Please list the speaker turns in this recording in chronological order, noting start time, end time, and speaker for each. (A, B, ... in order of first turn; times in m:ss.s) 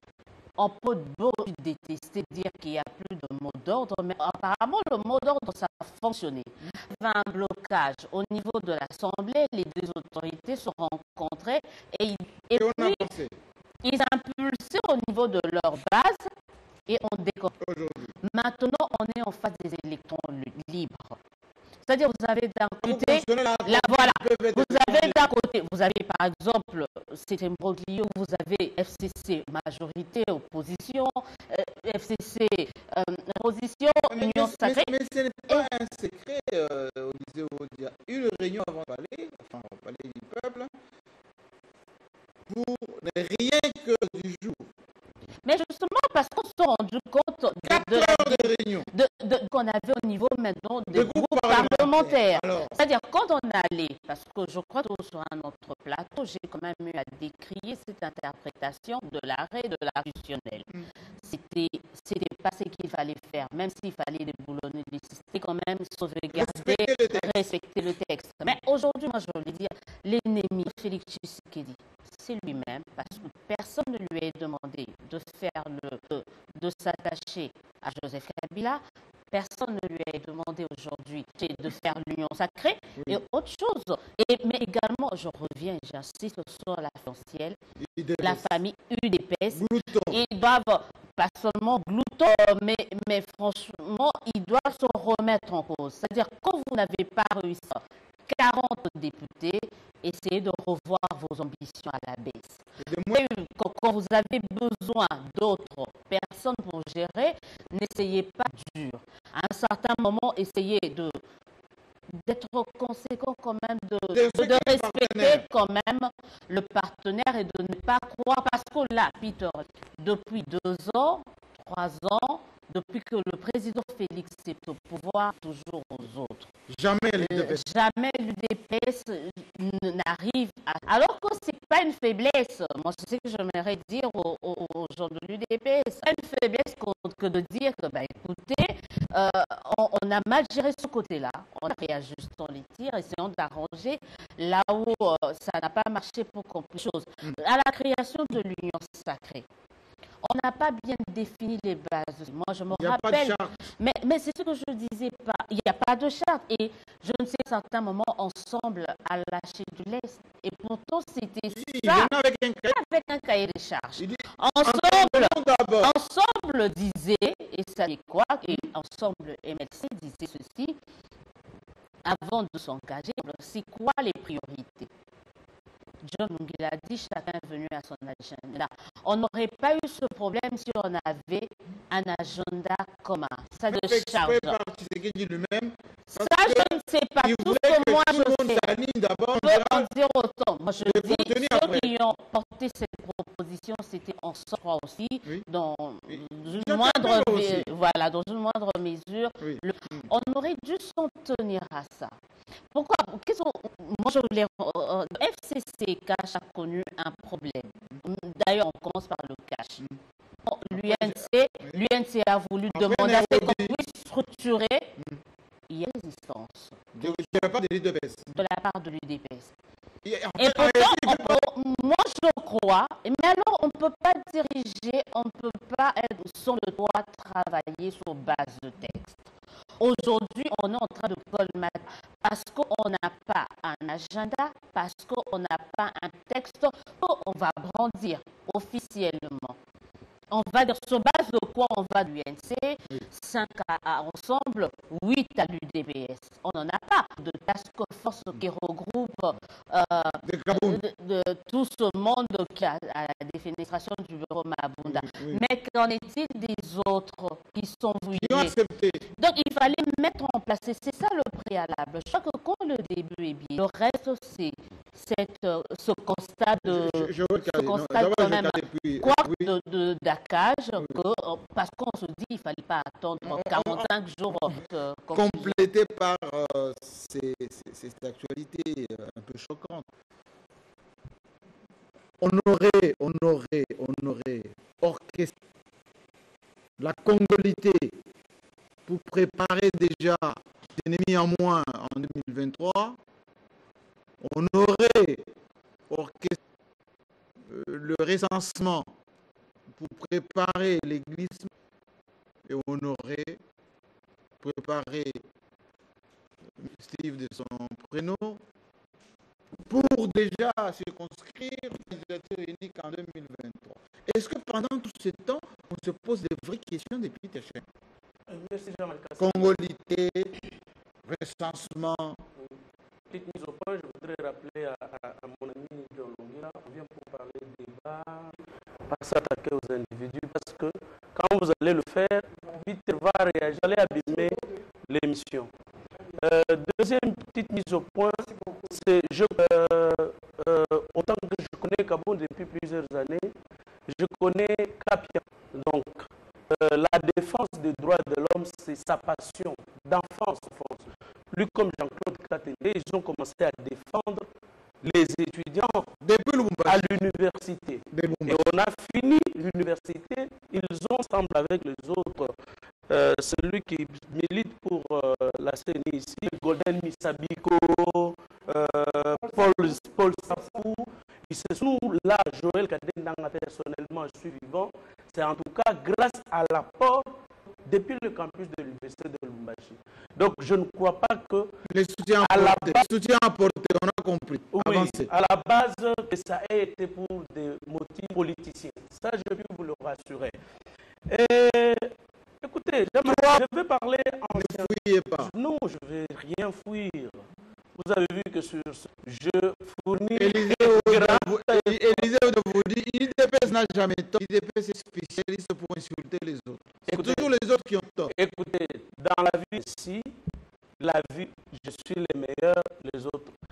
0:00.6-0:13.1 A
0:12.5-0:13.3 B
0:13.8-0:16.3 A
0:16.9-0:17.5 A
0:17.6-0:18.1 B
0:18.2-0:21.2 A
0:21.8-0:34.9 A
0:22.8-0:25.3 B
0:34.1-0:40.7 B
0:42.5-0:44.7 B
0:45.4-1:00.7 A
0:47.6-0:48.9 B
0:50.9-0:52.8 B
1:01.2-1:27.6 A
1:06.3-1:07.4 B
1:27.8-1:28.5 B
1:28.2-1:51.2 A
1:29.5-1:30.2 B
1:42.8-1:43.2 B
1:52.2-2:06.5 A
1:54.1-1:55.4 B
2:06.7-2:07.6 B
2:07.2-2:29.4 A
2:30.2-2:42.1 A
2:32.7-2:33.5 B
2:41.5-2:42.8 B
2:42.7-2:50.8 A
2:44.0-2:45.9 B
2:52.0-2:54.9 A
2:56.0-3:04.6 A
3:03.7-3:09.9 B
3:06.1-3:08.7 A
3:09.3-3:22.1 A
3:10.8-3:12.0 B
3:16.1-3:17.7 B
3:19.4-3:20.0 B
3:22.7-3:29.8 A
3:30.4-3:34.9 A
3:30.7-3:31.8 B
3:32.7-3:33.8 B
3:35.7-3:37.5 A
3:36.9-3:38.3 B
3:38.3-3:39.5 A
3:40.0-3:41.4 B
3:40.4-3:49.2 A
3:49.8-3:59.6 A
4:00.3-4:18.5 A
4:10.2-4:10.8 B
4:14.9-4:15.4 B
4:18.1-4:19.0 B
4:19.2-4:35.6 A
4:26.6-4:29.5 B
4:33.2-4:34.6 B
4:35.1-4:39.9 B
4:42.2-4:45.3 B
4:46.8-4:47.9 B
4:48.8-4:53.0 B
4:54.2-4:55.2 B
4:55.9-4:56.4 B
4:57.4-4:58.9 B
4:59.7-5:01.5 B
5:02.5-5:03.4 B
5:04.4-5:05.2 B
5:06.6-5:08.4 B
5:09.7-5:17.6 B
5:18.3-5:19.6 C
5:19.2-5:20.3 B
5:21.0-5:22.2 B
5:23.1-5:35.5 C
5:36.2-5:43.3 C
5:43.9-5:54.3 C
5:54.8-5:55.9 C
5:56.0-5:56.8 B
5:56.6-6:02.3 C
5:57.9-5:58.4 B
6:02.9-6:17.1 C
6:17.6-6:21.5 C
6:21.7-6:25.1 B
6:22.2-6:22.9 C
6:24.5-6:30.4 C
6:31.1-6:31.9 C
6:32.4-6:42.2 C
6:33.0-6:33.4 B
6:34.4-6:35.3 B
6:40.1-6:48.1 B
6:46.9-6:47.3 C
6:48.1-6:50.1 C
6:50.8-6:53.3 C